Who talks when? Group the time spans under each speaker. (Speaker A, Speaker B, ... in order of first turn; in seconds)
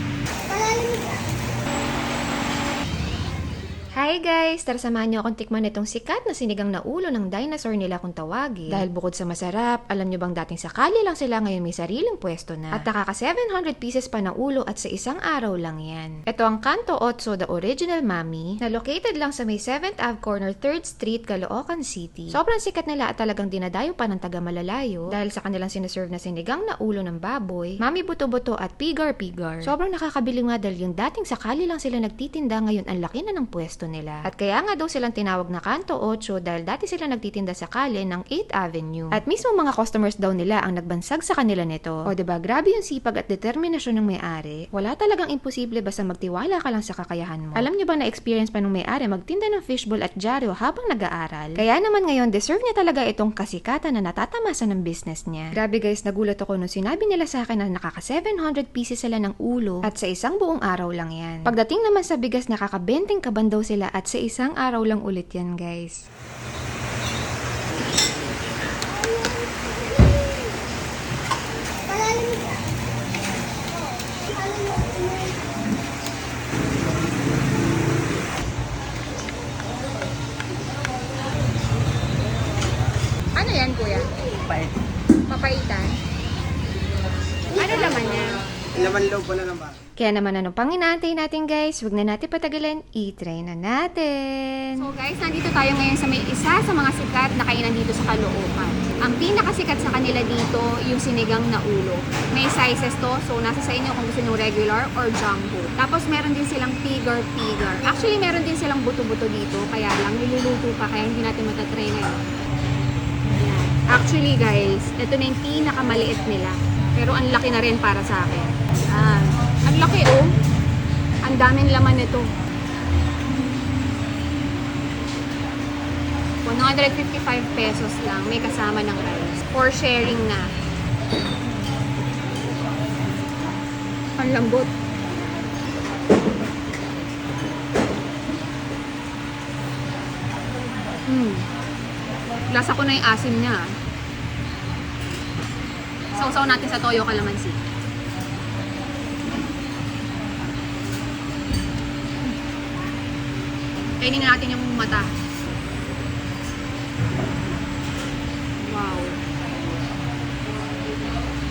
Speaker A: 0.5-1.2, 69.0-70.4, 71.9-72.6, 74.4-75.3, 89.0-89.6
Speaker B: 4.0-66.0, 90.0-94.8
Speaker C: 83.3-84.1, 85.3-85.9, 87.5-88.4, 94.8-112.2, 113.4-120.3, 121.2-122.3, 126.4-130.5, 134.2-134.7, 141.1-141.4, 142.5-143.6, 146.1-147.6, 154.0-155.1, 158.6-159.2